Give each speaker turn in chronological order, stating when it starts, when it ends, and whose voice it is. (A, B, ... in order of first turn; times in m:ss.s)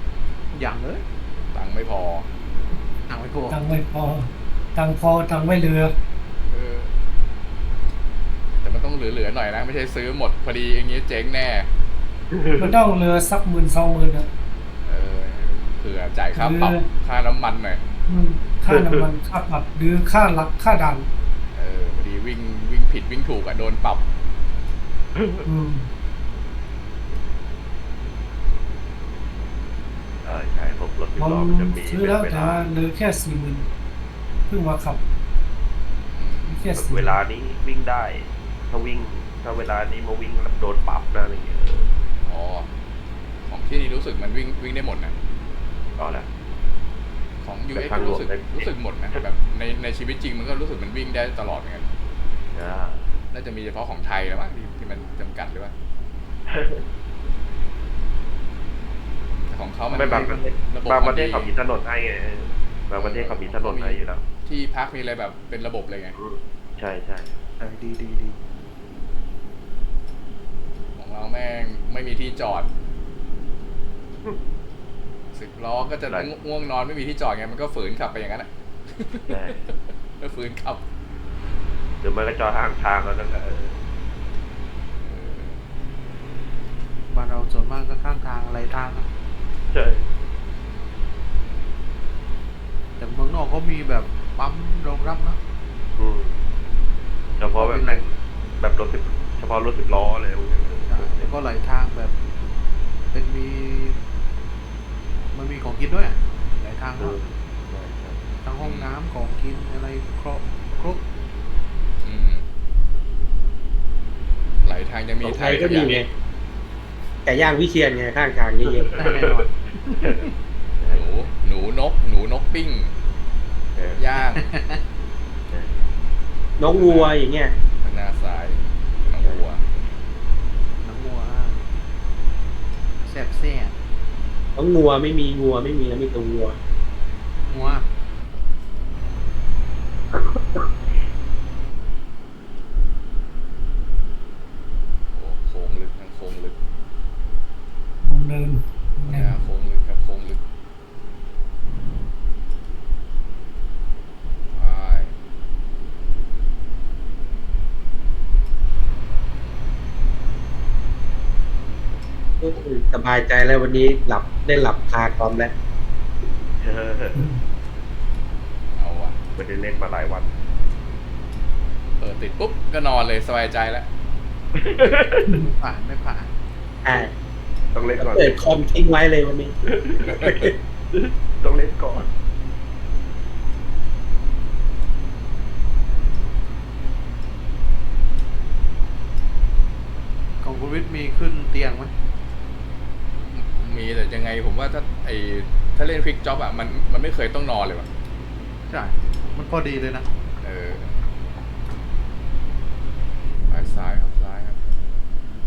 0:00.5-0:01.0 A
0:01.5-0:02.3 B
0:03.1-0:03.6 A
0:03.5-0:05.9 C
0:06.5-0:06.9 B
0:08.6-0:11.7 B
0:12.3-0:12.7 D
0:12.6-0:14.3 C
0:14.8-0:17.8 B
0:16.3-0:16.9 C
0:18.1-0:21.1 C
0:18.7-0:19.1 D
0:21.5-0:24.0 B
0:25.2-0:25.4 D
0:25.4-0:25.9 C
0:30.2-0:32.7 D
0:31.2-0:33.7 C
0:34.5-0:35.0 C
0:36.1-0:36.7 B
0:36.4-0:37.2 C
0:36.7-0:41.9 D
0:42.2-0:42.7 B
0:43.4-0:45.2 B
0:46.0-0:46.3 D
0:47.4-0:51.8 B
0:47.7-0:49.2 D
0:52.5-0:53.1 D
0:53.3-0:55.7 B
0:56.5-0:56.8 D
0:59.5-1:01.5 B
0:59.9-1:00.5 A
0:59.9-1:04.2 D
1:03.0-1:06.2 B
1:06.2-1:07.3 D
1:07.6-1:08.4 A
1:11.0-1:12.7 B
1:15.3-1:20.8 B
1:19.3-1:19.6 D
1:22.0-1:23.8 D
1:25.0-1:25.6 B
1:27.1-1:29.1 A
1:29.7-1:30.1 D
1:33.0-1:35.4 A
1:36.0-1:36.4 D
1:37.4-1:38.1 D
1:37.5-1:38.0 A
1:38.6-1:41.4 D
1:40.9-1:42.2 A
1:43.1-1:44.0 A
1:45.3-1:47.2 A
1:47.0-1:48.2 D
1:48.4-1:51.0 A
1:48.6-1:49.0 B
1:52.0-1:52.5 B
1:54.6-1:56.0 B
1:55.2-1:56.1 D
1:55.3-1:56.1 E
1:57.2-1:58.9 E
1:58.8-1:59.3 D
1:59.0-2:00.3 A
1:59.9-2:01.1 D
2:00.9-2:02.9 B
2:04.0-2:04.5 B
2:04.4-2:04.8 A
2:05.5-2:05.8 D
2:06.6-2:07.5 E
2:06.7-2:07.2 B
2:07.8-2:09.6 B
2:09.2-2:09.5 D
2:10.8-2:11.6 A
2:13.1-2:13.8 A
2:14.6-2:16.6 E
2:17.5-2:17.9 A
2:17.5-2:17.8 B
2:25.1-2:26.6 B
2:28.0-2:29.4 C
2:29.0-2:30.4 B
2:34.5-2:35.2 B
2:42.4-2:45.5 E
2:46.6-2:47.3 D
2:47.2-2:47.4 C
2:48.8-2:49.2 B
2:49.4-2:50.3 D
2:52.0-2:53.9 B
2:54.6-2:55.4 D
2:55.3-2:56.3 A
2:56.8-2:57.1 E
2:57.7-2:58.8 D
2:58.0-2:59.5 E
2:59.7-3:02.1 D
3:00.1-3:00.5 B
3:10.4-3:11.9 A
3:13.3-3:17.9 B
3:18.7-3:20.1 A
3:20.4-3:21.0 B
3:23.5-3:24.6 B